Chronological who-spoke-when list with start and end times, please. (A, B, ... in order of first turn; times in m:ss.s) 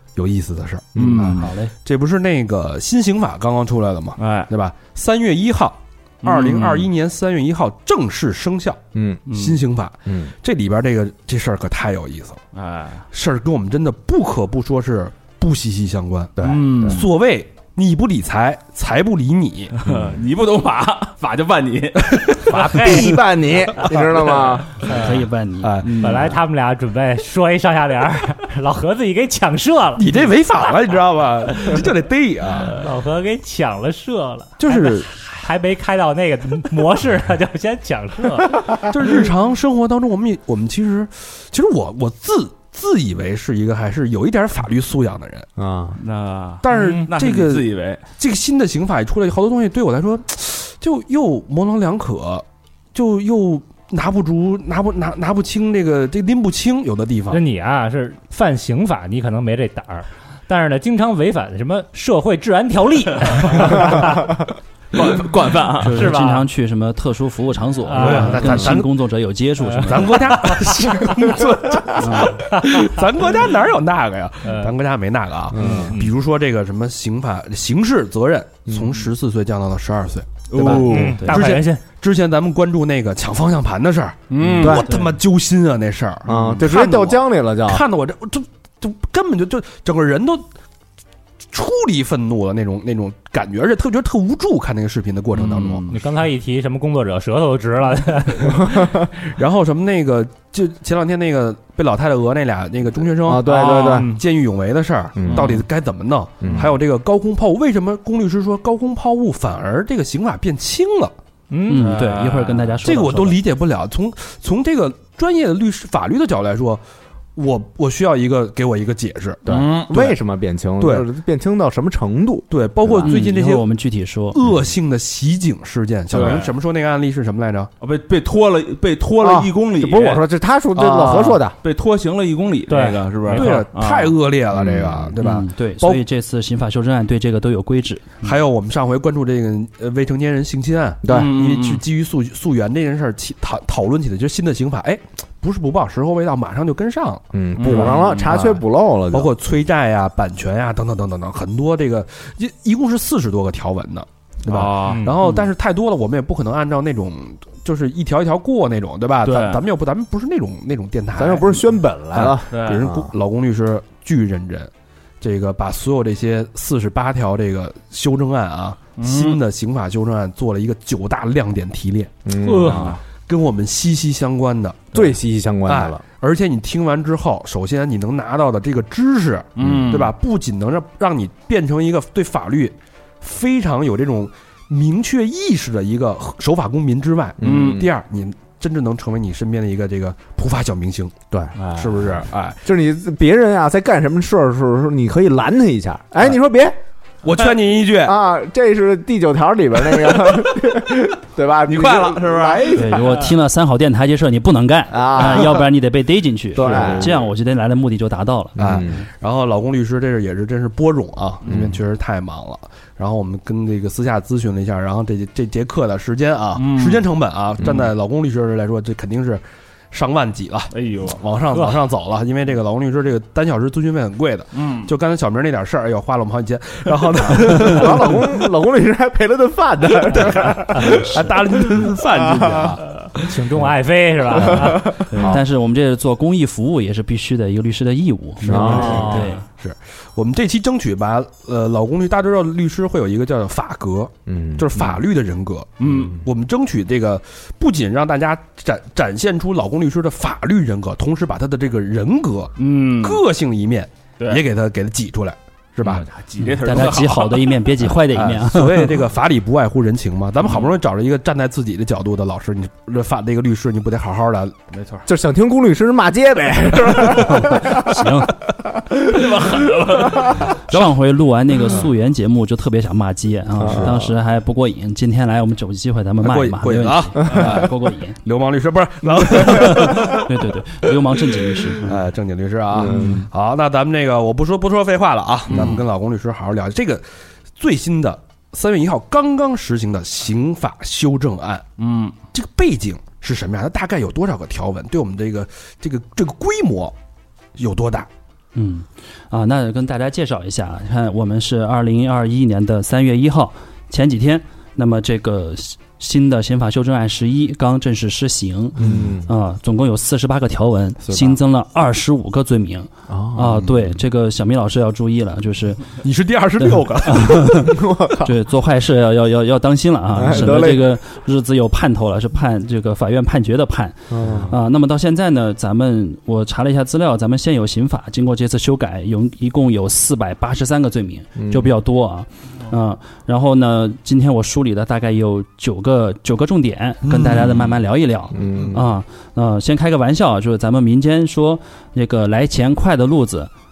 0:00.2-0:12.4 A
0:00.9-0:01.4 B
0:01.0-0:01.5 C
0:01.4-0:01.7 D
0:04.2-0:04.5 C
0:06.2-0:06.9 C
0:08.9-0:09.2 B
0:10.1-0:10.3 B
0:12.5-0:13.0 C
0:13.1-0:19.8 A
0:16.4-0:17.1 B
0:16.4-0:17.0 C
0:19.8-0:23.2 C
0:22.6-0:24.8 B
0:24.1-0:24.5 C
0:24.9-0:25.7 D
0:24.9-0:25.2 E
0:25.6-0:26.2 A
0:25.8-0:26.4 C
0:26.0-0:30.1 E
0:30.0-0:32.9 A
0:32.7-0:38.8 E
0:34.6-0:35.1 A
0:38.8-0:45.5 A
0:45.6-0:46.0 B
0:45.9-0:48.0 C
0:46.6-0:57.4 A
0:46.7-0:47.1 E
0:57.3-1:04.3 E
1:04.9-1:06.1 C
1:05.8-1:10.4 D
1:05.9-1:06.5 E
1:07.8-1:08.7 E
1:08.0-1:08.9 A
1:09.6-1:11.2 E
1:09.8-1:30.4 A
1:12.0-1:12.4 D
1:12.6-1:12.8 E
1:14.4-1:14.7 E
1:15.5-1:15.9 B
1:15.7-1:16.1 E
1:18.7-1:18.9 B
1:20.5-1:21.4 C
1:20.6-1:21.3 D
1:20.8-1:21.8 E
1:24.3-1:24.9 C
1:24.4-1:24.8 B
1:26.2-1:27.8 B
1:26.3-1:26.6 C
1:31.5-1:35.9 A
1:35.3-1:36.0 C
1:35.9-1:38.6 E
1:38.5-1:39.1 B
1:39.2-1:51.1 A
1:43.2-1:44.1 B
1:43.5-1:44.2 E
1:45.2-1:45.6 B
1:45.3-1:45.6 C
1:46.4-1:46.7 B
1:51.5-1:52.0 E
1:51.7-1:53.4 D
1:51.8-1:52.7 C
1:52.8-1:56.8 A
1:57.4-1:59.4 A
1:59.4-2:03.1 B
1:59.5-2:00.2 C
2:00.8-2:01.1 A
2:02.5-2:03.6 A
2:03.0-2:04.4 D
2:04.3-2:07.7 A
2:06.1-2:06.5 C
2:07.8-2:10.2 C
2:09.2-2:11.5 B
2:10.8-2:11.4 A
2:11.6-2:14.2 C
2:12.7-2:13.6 E
2:13.3-2:16.0 A
2:14.6-2:15.1 B
2:15.2-2:18.3 D
2:18.2-2:28.6 A
2:21.0-2:21.3 B
2:21.1-2:21.8 C
2:27.3-2:29.3 B
2:27.6-2:28.4 C
2:29.1-2:44.7 A
2:34.4-2:35.1 C
2:39.2-2:39.6 C
2:41.2-2:43.1 B
2:42.5-2:42.8 C
2:45.2-2:55.0 A
2:49.0-2:49.4 C
2:52.2-2:53.0 B
2:52.4-2:53.0 C
2:54.9-2:56.0 B
2:55.6-3:11.1 A
2:59.6-3:00.1 C
3:07.4-3:07.9 B
3:07.4-3:07.8 C
3:11.3-3:12.0 B
3:11.6-3:11.8 C
3:11.7-3:12.6 A
3:12.6-3:16.8 B
3:17.2-3:18.2 A
3:18.0-3:23.1 B
3:21.6-3:23.2 C
3:22.7-3:28.6 D
3:24.9-3:25.7 B
3:26.5-3:27.1 B
3:26.6-3:26.9 A
3:28.6-3:29.0 B
3:28.6-3:48.4 A
3:31.5-3:31.7 B
3:36.5-3:37.0 C
3:37.6-3:37.9 B
3:40.7-3:41.2 C
3:44.5-3:44.9 C
3:47.2-3:51.1 B
3:50.0-3:53.2 A
3:50.9-3:51.2 D
3:52.2-3:52.7 B
3:53.3-3:55.0 E
3:54.4-3:55.4 B
3:55.1-3:59.4 D
3:58.4-3:59.2 B
3:58.5-4:16.1 A
3:58.6-3:59.4 E
4:04.3-4:04.8 B
4:05.8-4:06.2 C
4:12.6-4:13.2 C
4:15.8-4:17.5 C
4:16.4-4:18.9 D
4:18.1-4:24.6 A
4:20.4-4:20.7 C
4:24.7-4:25.0 C
4:25.0-4:28.0 B
4:27.1-4:28.3 D
4:29.0-4:30.5 C
4:30.7-4:38.2 D
4:33.6-4:34.1 B
4:36.2-4:37.7 A
4:38.2-4:40.3 A
4:39.5-4:42.0 D
4:41.8-4:47.0 A
4:42.8-4:43.2 B
4:45.5-4:45.8 B
4:47.6-4:51.7 A
4:51.8-4:52.1 C
4:52.3-4:56.9 A
4:57.6-4:58.1 A
4:58.5-5:15.9 D
5:08.8-5:09.3 B
5:13.1-5:13.8 B
5:16.0-5:17.6 A
5:16.6-5:43.5 D
5:17.6-5:18.3 B
5:20.1-5:20.9 B
5:24.1-5:24.5 B
5:31.4-5:31.7 B
5:38.3-5:38.8 B